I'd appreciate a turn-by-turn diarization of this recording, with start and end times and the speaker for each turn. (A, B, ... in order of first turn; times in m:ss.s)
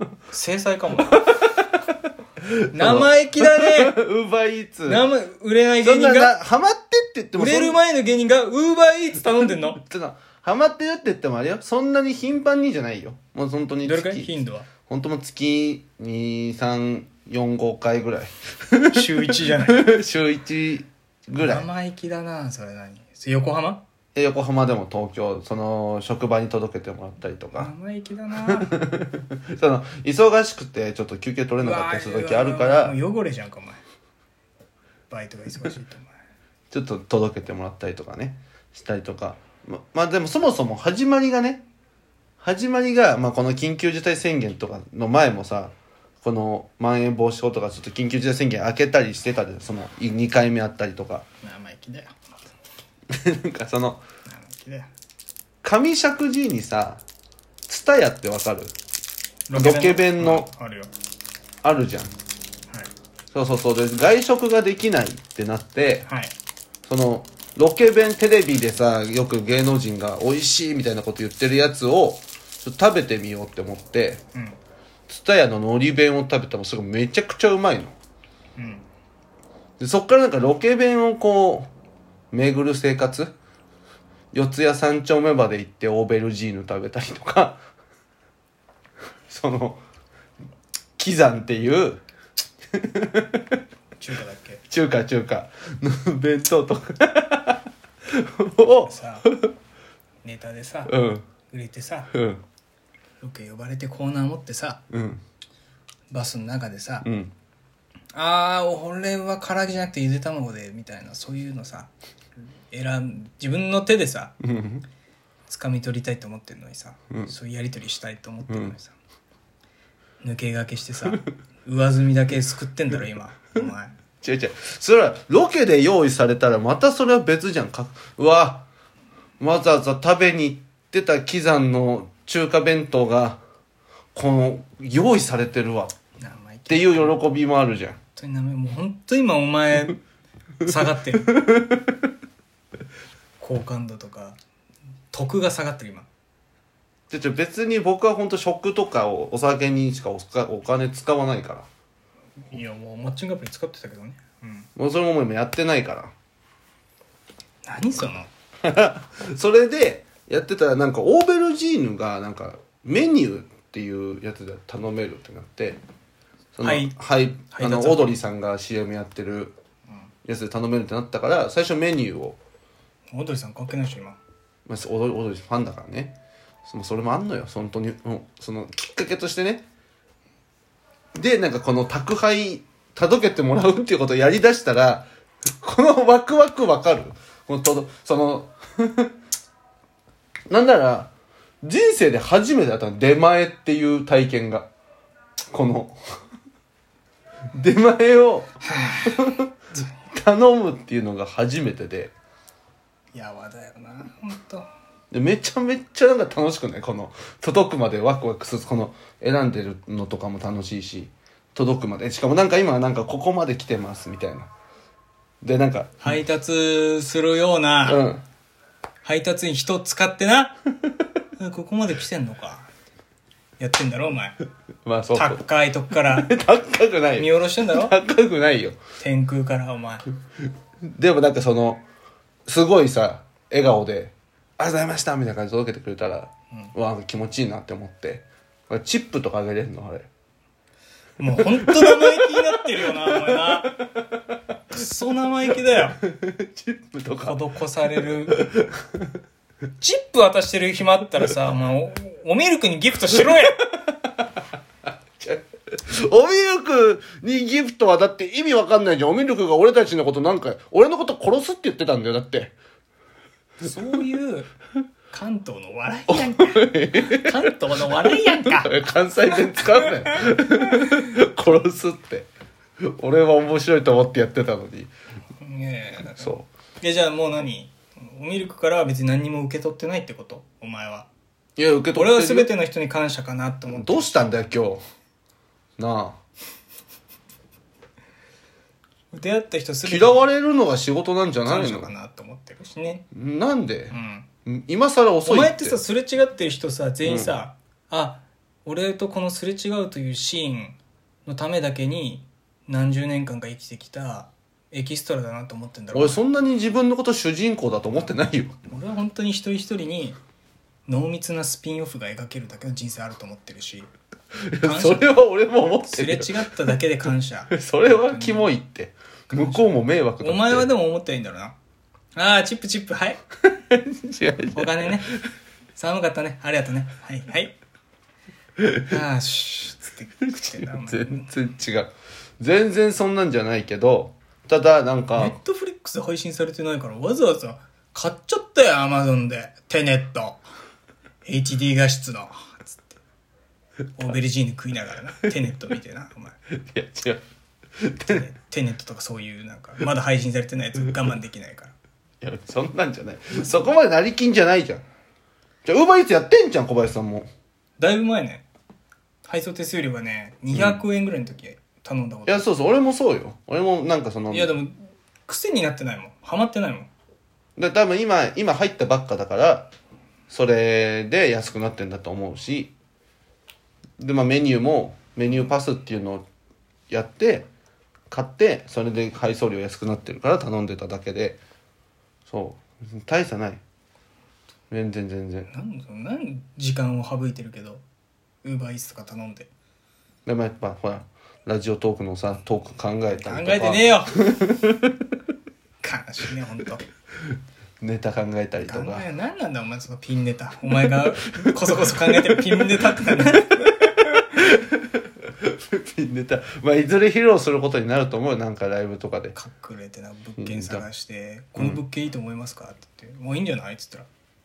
0:00.3-0:01.1 A
0:01.1-0:05.0 B
0:02.7-0:04.0 A
0:04.9-0:06.4 A
0:05.8-0:07.8 B
0:07.4-0:09.8 A
0:09.8-0:14.3 B
0:13.8-0:14.7 A
0:14.9-0:21.7 B
0:18.9-0:19.8 A
0:21.4-0:23.8 A
0:24.2-0:27.7 B
0:27.6-0:28.8 A
0:28.4-0:33.0 B
0:31.6-0:33.8 A
0:35.1-0:36.1 A
0:36.7-0:41.6 B
0:42.4-0:51.2 B
0:51.4-0:52.2 A
0:53.1-0:54.0 B
0:54.3-0:54.9 A
0:55.6-0:57.0 B
0:57.7-0:58.8 B
0:59.5-1:00.9 A
0:59.6-1:00.5 B
1:01.6-1:02.1 B
1:03.3-1:06.1 B
1:06.1-1:06.3 A
1:06.9-1:14.2 B
1:15.1-1:18.0 B
1:18.6-1:18.9 A
1:19.8-1:21.7 B
1:22.3-1:23.3 B
1:24.3-1:27.6 B
1:29.3-1:29.8 B
1:31.0-1:32.0 B
1:32.7-1:33.5 B
1:34.0-1:34.6 A
1:34.7-1:39.5 B
1:38.8-1:39.3 A
1:40.2-1:40.9 A
1:40.9-1:41.2 B
1:41.5-1:42.1 A
1:42.1-1:42.4 B
1:43.2-1:44.8 A
1:44.9-1:45.2 B
1:46.1-1:47.1 A
1:47.0-1:47.3 B
1:48.2-1:51.9 A
1:52.7-1:54.4 A
1:54.4-1:54.8 B
1:55.5-1:59.0 A
1:58.5-1:58.8 B
2:00.2-2:04.0 A
2:04.2-2:08.7 B
2:09.4-2:13.4 B
2:14.2-2:16.0 B
2:16.2-2:17.2 A
2:16.7-2:18.0 B
2:18.2-2:20.0 A
2:20.6-2:21.3 A
2:21.3-2:21.9 B
2:23.4-2:24.4 A
2:25.1-2:26.1 A
2:27.1-2:31.7 B
2:32.5-2:34.7 A
2:34.8-2:36.1 B
2:37.6-2:38.3 A
2:38.6-2:45.8 B
2:46.6-2:49.6 B
2:46.6-2:47.0 A
2:47.5-2:48.2 A
2:50.2-2:52.4 B
2:53.1-2:54.2 A
2:54.7-2:59.7 B
3:01.2-3:09.1 B
3:10.5-3:11.1 B
3:11.6-3:14.7 B
3:15.5-3:16.0 B
3:17.5-3:19.5 B
3:18.7-3:19.2 A
3:20.1-3:22.1 B
3:23.1-3:24.7 A
3:25.1-3:34.5 B
3:35.4-3:36.1 B
3:36.0-3:38.0 A
3:37.9-3:38.2 B
3:39.0-3:40.6 A
3:41.4-3:42.7 A
3:43.6-3:44.4 A
3:44.8-3:45.4 B
3:45.2-3:46.3 A
3:46.1-3:48.8 B
3:47.2-3:48.0 A
3:49.0-3:50.0 A
3:50.9-3:51.8 B
3:52.5-4:00.1 B
4:01.2-4:03.8 A
4:01.6-4:02.3 B
4:02.9-4:03.5 B
4:04.7-4:06.0 A
4:06.0-4:07.4 B
4:07.2-4:08.4 A
4:08.4-4:09.1 B
4:09.8-4:13.6 A
4:13.8-4:14.2 B
4:15.2-4:22.6 B
4:23.6-4:24.5 A
4:25.1-4:28.9 A
4:26.1-4:27.3 B
4:28.3-4:32.3 B
4:29.6-4:29.9 A
4:32.8-4:34.9 B
4:35.4-4:41.1 A
4:36.2-4:36.5 B
4:41.6-4:42.5 B
4:42.0-4:44.4 A
4:43.7-4:44.8 B
4:45.8-4:46.2 B
4:49.1-4:50.2 A
4:49.8-4:51.9 B
4:51.4-4:53.0 A
4:53.1-4:55.8 B
4:53.9-4:54.3 A
4:55.2-5:06.2 A
4:57.0-4:57.4 B
5:05.9-5:08.6 B
5:08.7-5:10.2 A
5:10.9-5:13.9 A
5:14.5-5:16.4 B
5:14.6-5:15.2 A
5:15.8-5:18.5 A
5:17.5-5:20.7 B
5:19.3-5:21.6 A
5:22.2-5:23.2 A
5:23.5-5:25.0 B
5:24.5-5:25.1 A
5:25.8-5:27.6 A
5:28.8-5:31.3 A
5:30.3-5:35.4 B
5:35.2-5:40.4 A
5:41.2-5:43.0 A
5:44.0-5:46.4 A
5:46.6-5:47.2 B
5:47.8-5:48.2 B
5:48.0-5:51.7 A
5:52.2-5:54.8 B
5:55.6-5:57.3 B
5:57.8-5:58.4 A
5:59.3-6:02.4 A
6:00.5-6:00.8 B
6:02.3-6:04.5 B
6:04.3-6:06.9 A
6:07.6-6:09.7 B
6:10.3-6:12.7 B
6:14.0-6:16.2 B
6:16.9-6:17.5 B
6:18.1-6:21.4 B
6:22.3-6:23.6 B
6:24.7-6:25.5 B
6:25.5-6:27.8 A
6:28.4-6:29.5 A
6:30.2-6:34.9 B
6:33.2-6:34.2 A
6:35.8-6:36.8 A
6:37.8-6:39.0 B
6:38.7-6:43.8 A
6:41.3-6:42.3 B
6:44.3-6:49.4 B
6:49.4-6:54.1 A
6:50.4-6:50.8 B